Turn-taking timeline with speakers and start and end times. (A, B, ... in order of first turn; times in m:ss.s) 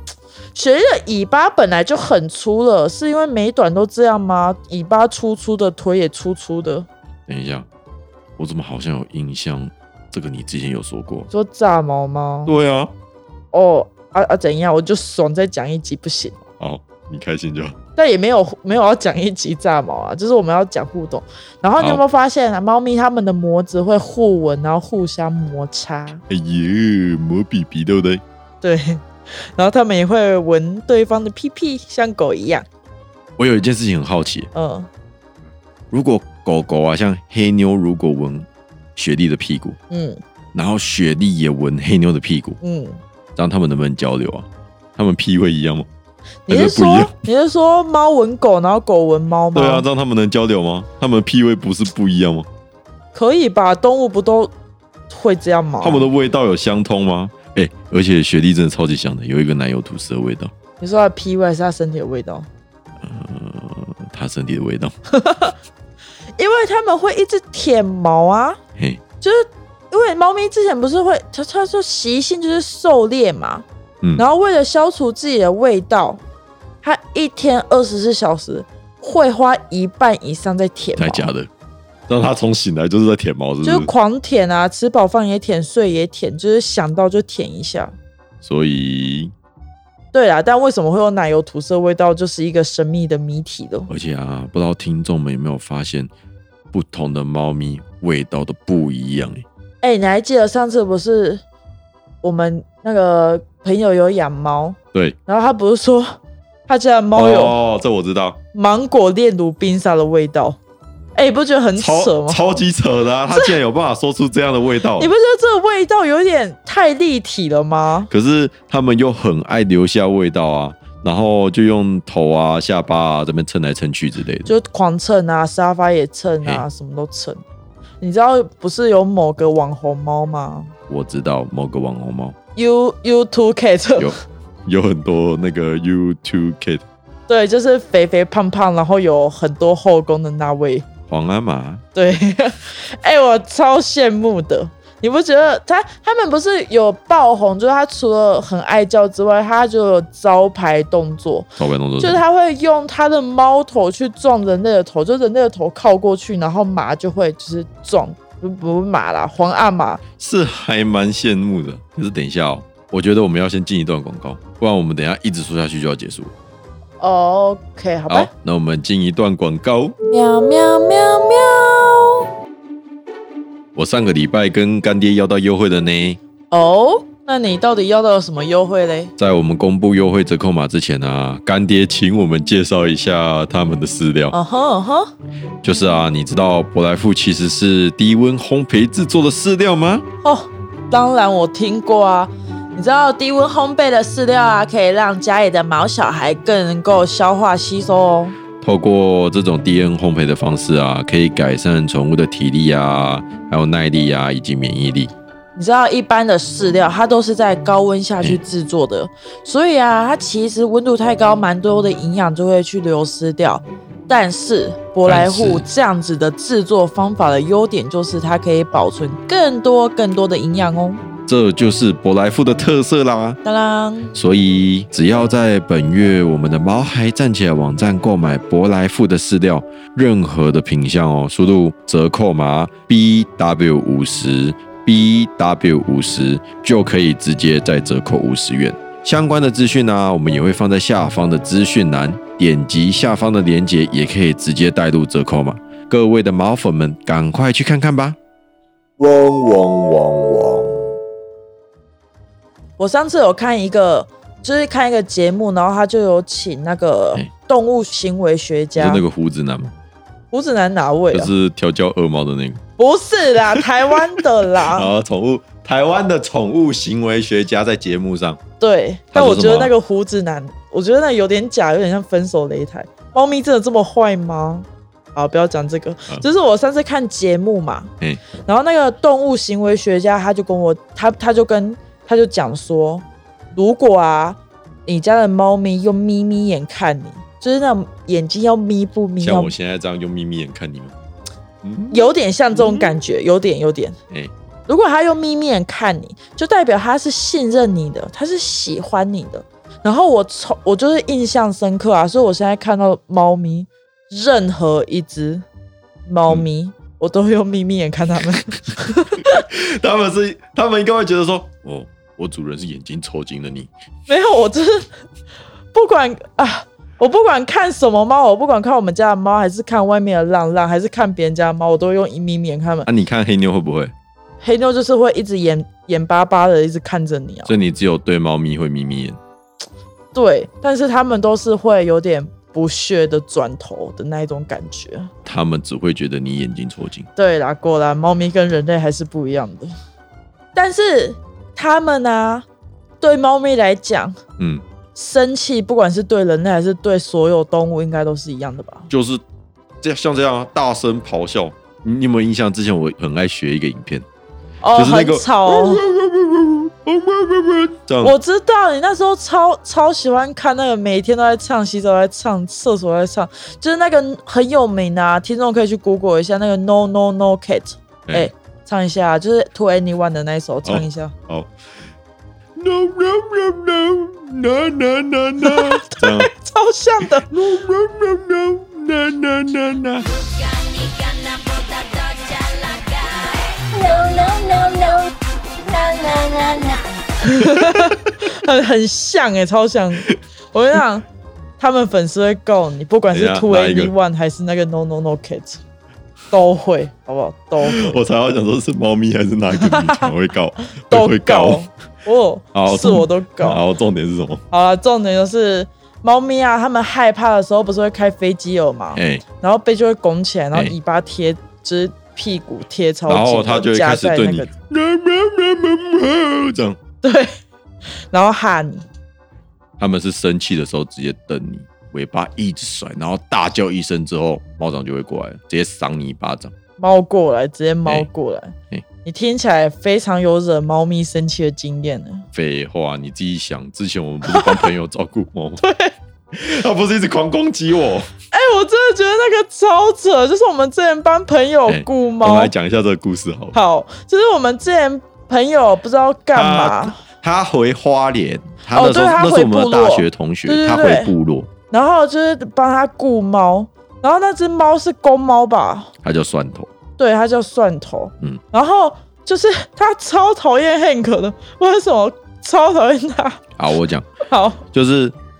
0:00.5-0:06.9 A
0:07.3-0:07.7 B
0:08.4-0:11.3 B
0:11.3-0:12.5 A
0:12.4-0:12.9 B
0:13.5-0:16.4 A
0:16.6-0:17.8 B
0:18.0-0:26.2 A
0:26.3-0:28.2 B
0:28.6-0:32.6 A
0:33.4-0:34.5 B
0:34.5-0:34.9 A
0:35.9-0:39.8 B
0:39.9-0:40.2 A
0:40.5-0:42.6 B
0:42.6-0:43.0 A
0:43.4-0:45.9 B
0:46.5-0:49.8 A
0:46.5-0:47.2 B
0:49.5-0:52.5 B
0:53.1-0:54.5 A
0:55.1-0:56.1 A
0:55.8-1:00.5 B
1:00.8-1:02.5 A
1:03.0-1:04.9 B
1:05.1-1:05.6 A
1:06.4-1:08.6 A
1:08.8-1:09.0 B
1:09.2-1:16.2 A
1:16.8-1:21.3 A
1:21.0-1:21.5 B
1:22.1-1:23.9 B
1:23.6-1:27.9 A
1:28.4-1:29.3 B
1:30.1-1:33.9 A
1:33.9-1:36.1 B
1:36.7-1:39.4 B
1:39.8-1:41.4 A
1:42.2-1:47.6 A
1:47.1-1:48.4 B
1:48.5-1:50.6 A
1:51.1-1:52.4 A
1:51.8-1:55.1 B
1:53.3-1:53.6 A
1:55.0-1:58.1 A
1:58.1-2:04.5 B
2:04.4-2:07.4 A
2:08.0-2:10.7 A
2:10.9-2:12.4 B
2:12.6-2:14.1 A
2:14.0-2:16.8 B
2:17.3-2:20.9 A
2:21.1-2:21.8 B
2:21.9-2:31.5 A
2:31.6-2:32.2 B
2:32.0-2:40.0 A
2:40.2-2:46.3 B
2:47.0-2:48.3 A
2:48.1-2:50.0 B
2:50.0-2:52.2 A
2:53.7-2:56.2 B
2:56.5-2:59.1 A
2:59.2-3:04.3 B
3:04.3-3:05.1 A
3:05.6-3:10.0 B
3:10.2-3:18.4 A
3:18.6-3:25.1 B
3:25.5-3:41.0 A
3:35.0-3:35.6 B
3:41.3-3:43.4 B
3:43.4-3:44.1 A
3:44.1-4:08.2 B
4:09.0-4:11.0 B
4:12.8-4:19.0 A
4:18.8-4:19.7 B
4:20.3-4:21.3 A
4:21.1-4:22.6 B
4:22.8-4:24.9 A
4:23.5-4:28.4 B
4:28.6-4:37.9 A
4:29.1-4:29.7 B
4:38.4-4:49.5 A
4:49.2-4:50.9 B
4:51.6-4:53.0 B
4:51.9-4:54.0 A
4:54.7-5:05.4 A
5:06.0-5:09.4 A
5:09.2-5:13.7 B
5:14.1-5:14.9 A
5:15.7-5:22.9 A
5:22.8-5:23.9 B
5:24.4-5:27.5 A
5:27.5-5:29.2 B
5:30.1-5:35.1 A
5:35.2-5:37.1 B
5:37.2-5:39.7 A
5:40.5-5:42.4 A
5:43.0-5:44.2 A
5:44.4-5:44.6 B
5:44.9-5:48.9 A
5:48.9-5:49.2 B
5:49.8-5:54.0 B
5:54.6-5:55.8 A
5:54.7-5:58.1 B
5:58.0-6:11.1 A
6:10.6-6:11.5 B
6:12.6-6:16.3 B
6:15.4-6:17.3 A
6:17.3-6:20.1 B
6:20.1-6:26.9 C
6:27.2-6:31.0 A
6:31.6-6:35.6 A
6:33.1-6:33.9 B
6:36.3-6:38.0 A
6:37.6-6:41.6 B
6:39.6-6:40.1 A
6:40.9-6:43.6 A
6:42.5-6:44.4 B
6:44.5-6:54.5 A
6:48.9-6:49.2 B
6:53.1-6:56.8 B
6:57.0-6:57.4 A
6:58.1-6:58.8 A
6:59.8-7:06.5 B
7:06.8-7:12.3 A
7:12.3-7:15.6 B
7:14.2-7:14.7 A
7:15.6-7:15.9 A
7:16.3-7:18.1 B
7:18.3-7:22.5 A
7:21.7-7:23.5 B
7:23.5-7:27.0 A
7:26.3-7:31.5 B
7:28.7-7:31.1 A
7:31.7-7:35.9 A
7:36.0-7:36.7 B
7:37.0-7:43.4 A
7:43.6-7:44.1 B
7:44.2-7:44.6 A
7:44.7-7:45.1 B